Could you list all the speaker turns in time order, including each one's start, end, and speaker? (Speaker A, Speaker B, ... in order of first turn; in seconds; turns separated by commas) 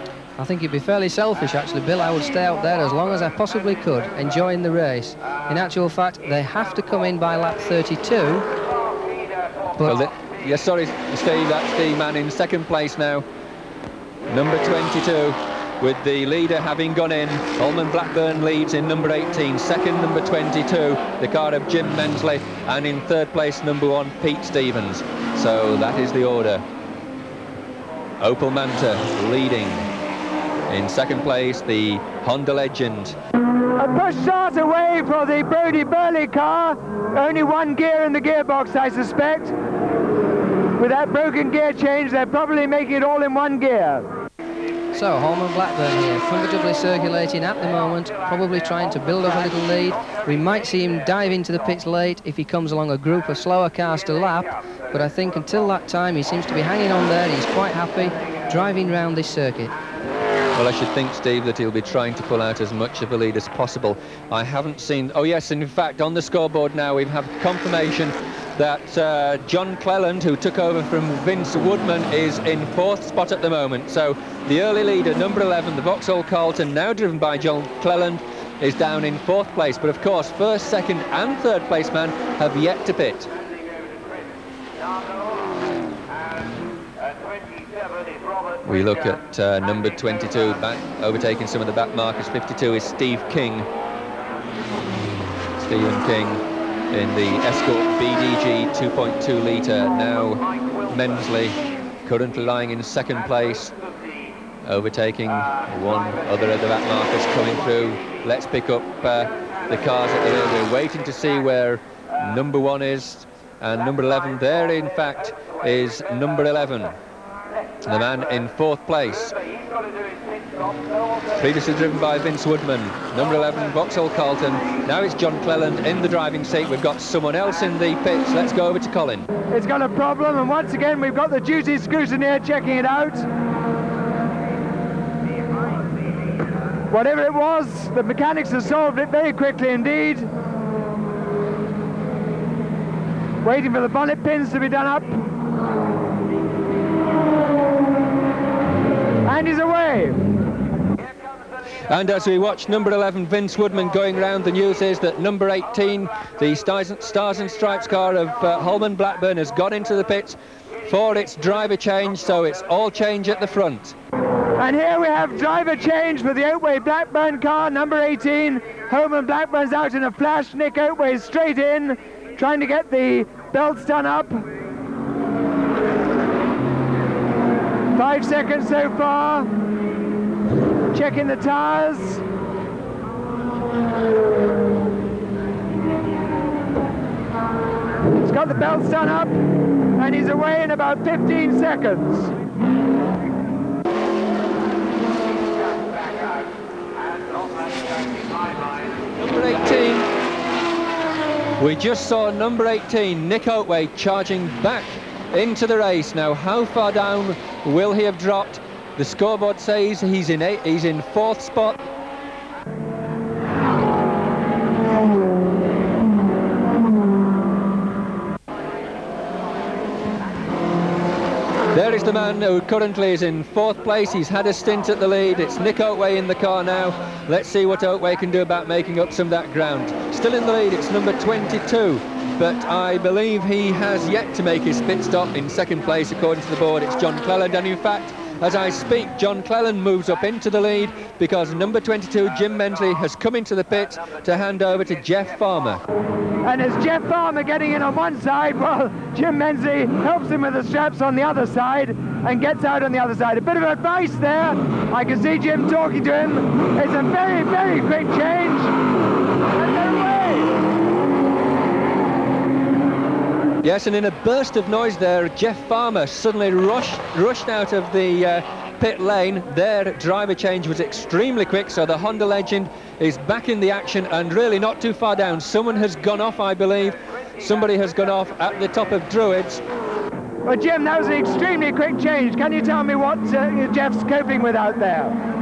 Speaker A: 0.4-8.4, Speaker B: 9.8-13.2, Speaker B: 14.3-26.6, Speaker B: 28.2-29.9, Speaker B: 30.7-33.2, Speaker C: 33.8-39.5, Speaker C: 40.8-44.1, Speaker A: 44.9-59.7, Speaker B: 60.5-83.3, Speaker B: 88.6-93.7, Speaker B: 95.6-103.7, Speaker B: 104.6-116.9, Speaker B: 117.8-119.3, Speaker B: 121.3-129.3, Speaker C: 129.5-133.3, Speaker C: 136.9-140.3, Speaker C: 143.4-145.2, Speaker C: 149.2-150.2, Speaker B: 151.9-163.9, Speaker C: 164.6-174.4, Speaker C: 177.9-179.5, Speaker C: 180.9-182.2, Speaker C: 188.2-192.3, Speaker B: 199.1-200.1, Speaker B: 201.6-211.8, Speaker B: 221.7-245.8, Speaker C: 246.4-258.8, Speaker C: 259.6-260.5, Speaker B: 263.6-279.6, Speaker C: 280.4-285.2